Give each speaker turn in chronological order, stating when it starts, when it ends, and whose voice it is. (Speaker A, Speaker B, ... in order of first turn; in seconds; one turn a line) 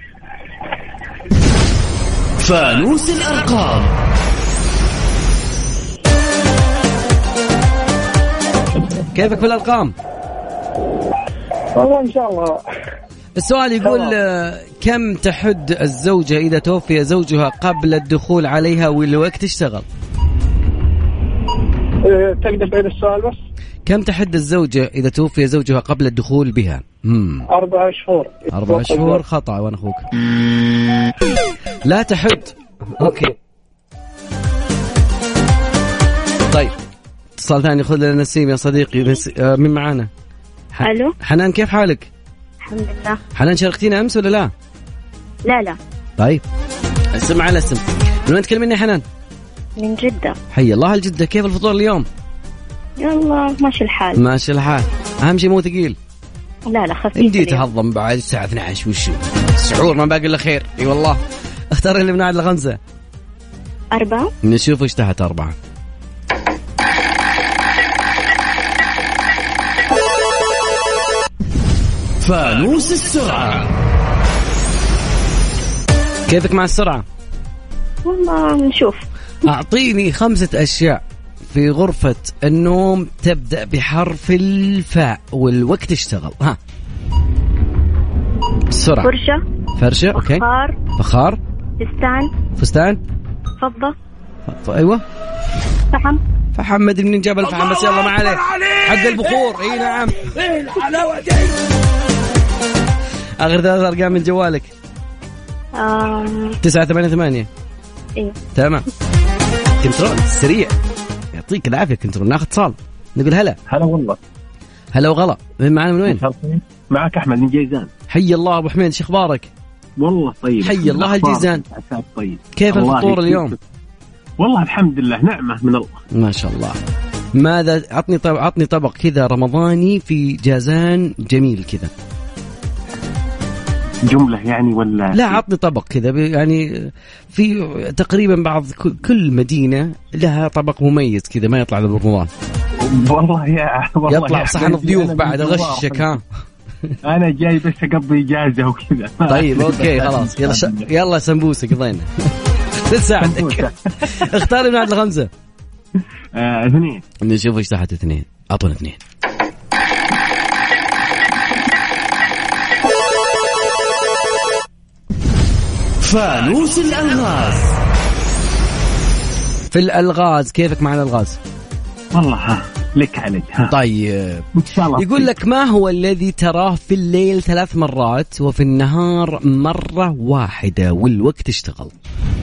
Speaker A: 2.4-3.9
Speaker B: 9.1-9.9
Speaker C: 11.8-12.6
Speaker B: 13.4-19.9
Speaker C: 22.1-23.4
Speaker B: 23.9-27.4
Speaker C: 27.5-29.2
Speaker B: 28.5-30.1
Speaker B: 31.8-33.3
Speaker B: 37.4-40.1
Speaker B: 40.7-42.1
Speaker D: 40.8-41.1
Speaker D: 42.6-43.2
Speaker B: 43.4-44.5
Speaker D: 45.5-45.8
Speaker B: 47.1-49.0
Speaker D: 49.8-50.4
Speaker B: 50.5-52.0
Speaker D: 53.0-54.2
Speaker B: 54.2-56.0
Speaker D: 56.7-57.6
Speaker B: 57.1-61.2
Speaker B: 61.7-62.8
Speaker D: 63.9-64.3
Speaker B: 64.4-65.5
Speaker A: 72.2-73.7
Speaker B: 76.3-77.0
Speaker D: 78.0-79.0
Speaker B: 79.5-86.6
Speaker B: 88.7-89.1
Speaker D: 89.0-89.4
Speaker B: 89.8-90.4
Speaker D: 90.1-90.8
Speaker B: 91.0-91.4
Speaker D: 91.8-92.3
Speaker B: 92.6-93.0
Speaker D: 93.6-93.9
Speaker B: 94.5-95.0
Speaker B: 96.5-100.3
Speaker B: 103.4-104.7
Speaker D: 105.8-106.5
Speaker B: 106.6-107.5
Speaker B: 108.5-108.8
Speaker B: 109.8-110.7
Speaker B: 111.3-113.6
Speaker E: 113.7-114.2
Speaker B: 114.9-116.2
Speaker E: 116.0-117.9
Speaker B: 118.1-119.5
Speaker E: 120.0-123.5
Speaker B: 120.6-121.6
Speaker B: 122.5-123.5
Speaker E: 124.4-126.0
Speaker B: 126.1-126.8
Speaker B: 127.3-131.9
Speaker E: 134.1-135.4
Speaker B: 135.1-142.3
Speaker E: 142.8-146.1
Speaker B: 144.1-146.2
Speaker E: 147.0-150.9
Speaker B: 149.3-152.1
Speaker B: 152.9-155.3
Speaker E: 153.2-154.3
Speaker E: 156.3-157.0
Speaker B: 157.2-159.0
Speaker A: 166.0-167.7
Speaker B: 169.7-171.4
Speaker E: 172.1-173.7
Speaker B: 173.7-181.9
Speaker E: 174.6-175.3